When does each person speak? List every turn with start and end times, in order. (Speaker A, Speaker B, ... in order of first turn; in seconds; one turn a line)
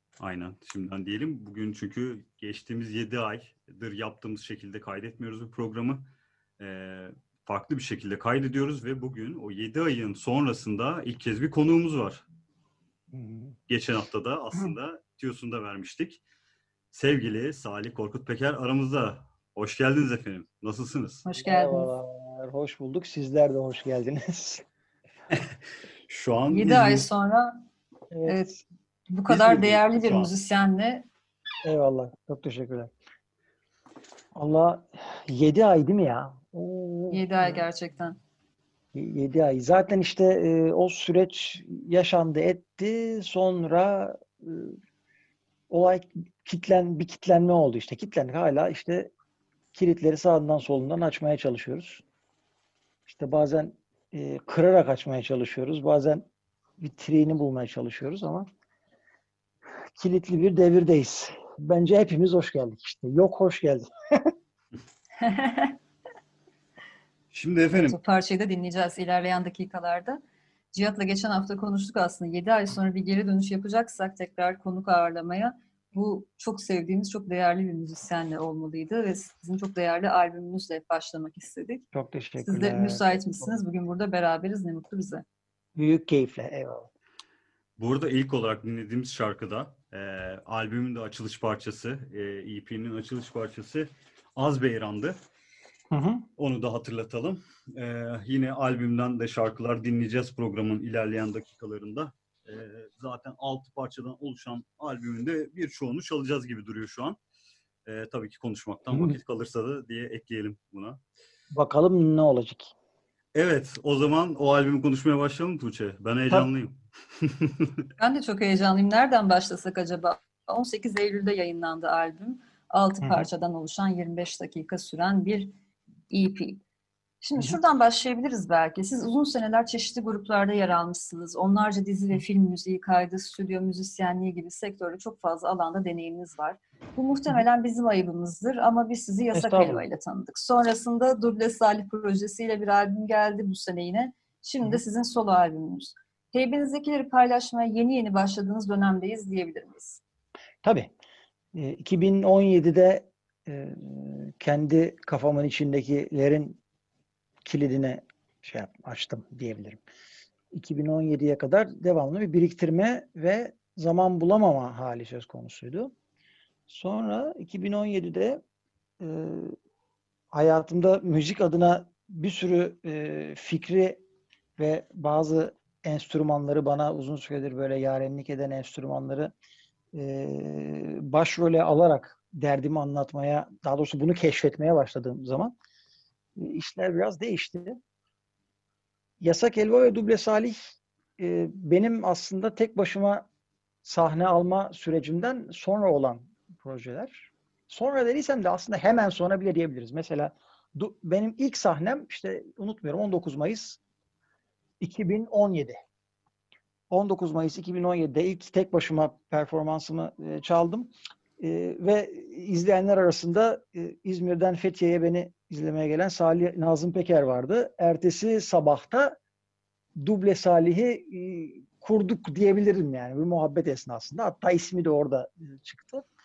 Speaker A: 0.2-12.2
Speaker B: 13.1-13.6
Speaker A: 13.7-16.2
Speaker A: 16.9-21.2
Speaker C: 21.2-21.9
Speaker B: 21.4-24.6
Speaker A: 26.1-27.1
Speaker C: 26.5-27.6
Speaker B: 28.1-28.6
Speaker C: 28.2-28.5
Speaker C: 29.1-31.1
Speaker A: 29.3-30.3
Speaker B: 31.6-32.9
Speaker B: 34.3-37.6
Speaker C: 37.1-38.2
Speaker B: 38.9-44.7
Speaker B: 45.7-49.1
Speaker B: 49.7-52.0
Speaker B: 53.0-56.3
Speaker B: 56.8-58.5
Speaker B: 60.0-64.3
Speaker C: 65.2-65.8
Speaker A: 67.3-68.0
Speaker C: 67.8-70.2
Speaker C: 70.7-81.8
Speaker B: 81.9-83.5
Speaker C: 82.4-85.2
Speaker B: 85.8-86.9
Speaker A: 87.8-95.2
Speaker B: 95.9-96.2
Speaker A: 96.4-107.2
Speaker A: 107.8-111.0
Speaker B: 108.9-109.2
Speaker B: 111.5-112.7
Speaker A: 113.3-117.8
Speaker C: 118.0-125.5
Speaker C: 126.1-126.6
Speaker C: 127.2-150.0
Speaker B: 139.3-139.8
Speaker B: 150.6-150.9
Speaker B: 151.5-156.6
Speaker B: 157.4-159.8
Speaker B: 160.5-165.9
Speaker B: 166.7-168.4
Speaker B: 169.0-169.5
Speaker B: 170.3-174.0
Speaker B: 174.6-179.3
Speaker B: 179.9-185.5
Speaker B: 186.4-187.8
Speaker B: 189.2-190.6
Speaker B: 191.2-193.3
Speaker B: 193.8-203.8
Speaker B: 204.8-205.8
Speaker B: 206.9-219.2
Speaker B: 220.0-226.1